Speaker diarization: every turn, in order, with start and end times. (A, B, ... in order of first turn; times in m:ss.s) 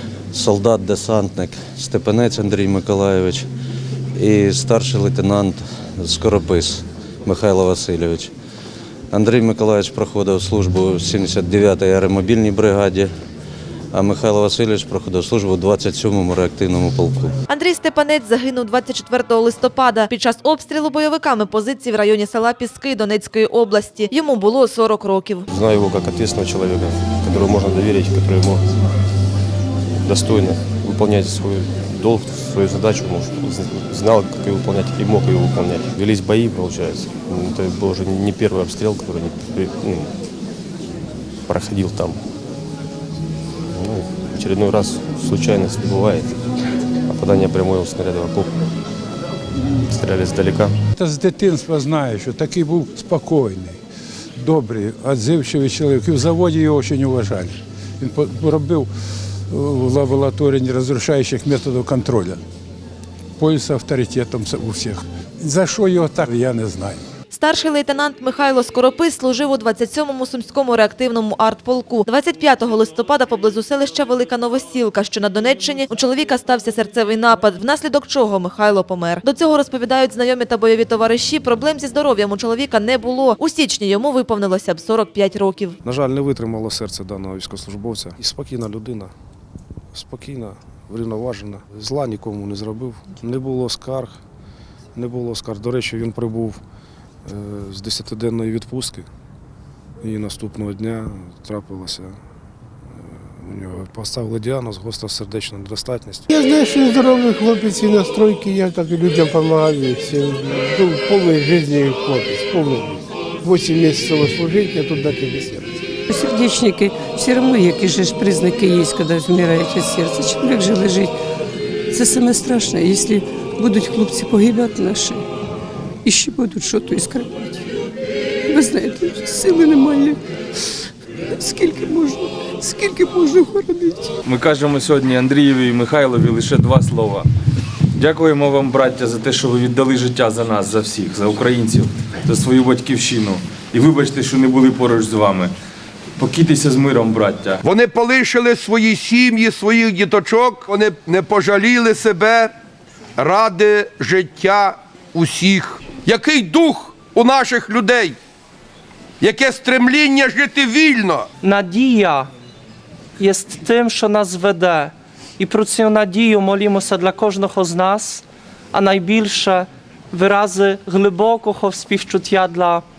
0:00.3-0:03.5 A
0:04.2-0:08.3 A
0:09.1-0:13.1 A
0:13.9-0:17.3 A
0:17.5-0:25.5 B
0:25.5-0:28.7 C
0:30.0-0:40.1 C
0:41.5-0:42.3 C
0:43.7-0:46.4 C
0:47.1-0:48.5 C
0:49.8-0:50.7 C
0:51.0-0:53.8 D
0:54.4-0:58.9 D
0:59.5-1:02.4 D
1:03.4-1:07.0 D
1:07.3-1:25.8 B
1:25.8-1:29.1 E
1:29.9-1:34.2 E
1:35.0-1:36.6 E
1:37.2-1:39.1 E
1:40.0-1:42.2 E
1:43.0-1:46.2 E
1:46.3-1:55.6 F
1:56.1-2:01.2 G
2:01.9-2:05.3 G
2:06.0-2:07.6 G
2:08.5-2:10.2 G
2:11.4-2:14.2 G
2:14.3-2:17.3 H
2:18.0-2:25.5 H
2:26.2-2:27.6 H
2:27.6-2:32.5 I
2:33.2-2:38.2 I
2:39.2-2:41.3 I
2:41.4-2:42.3 J
2:43.2-2:52.8 J